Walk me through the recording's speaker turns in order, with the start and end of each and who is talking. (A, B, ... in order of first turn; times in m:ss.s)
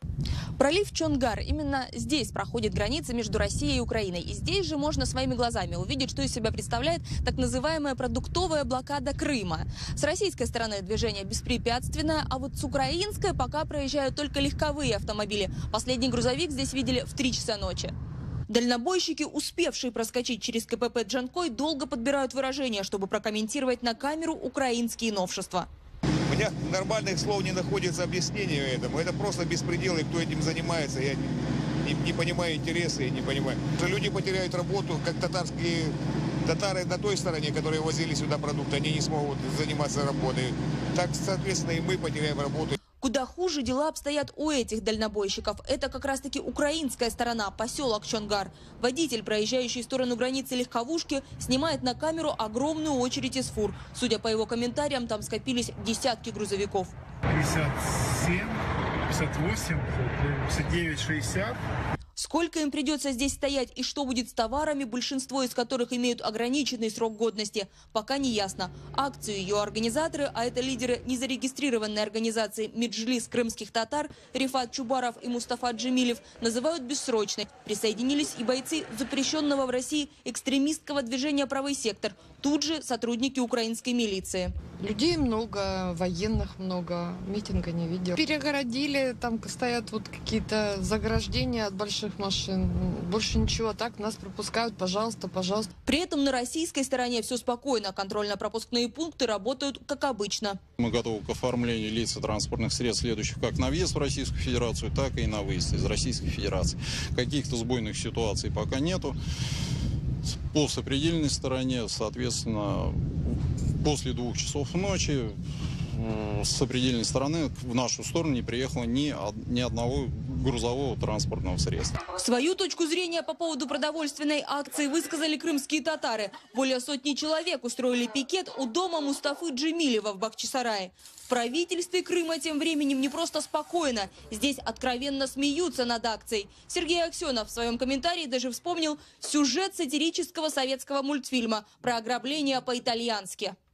0:00.6-0:17.9 A
0:18.5-0:25.7 A
0:26.3-0:42.7 B
0:43.0-0:56.9 A
0:57.3-1:01.6 C
1:02.2-1:24.6 A
1:24.8-1:35.7 D
1:35.9-1:40.6 A
1:40.8-1:49.2 E
1:50.3-1:55.4 E
1:55.9-2:01.9 E
2:02.2-2:23.6 A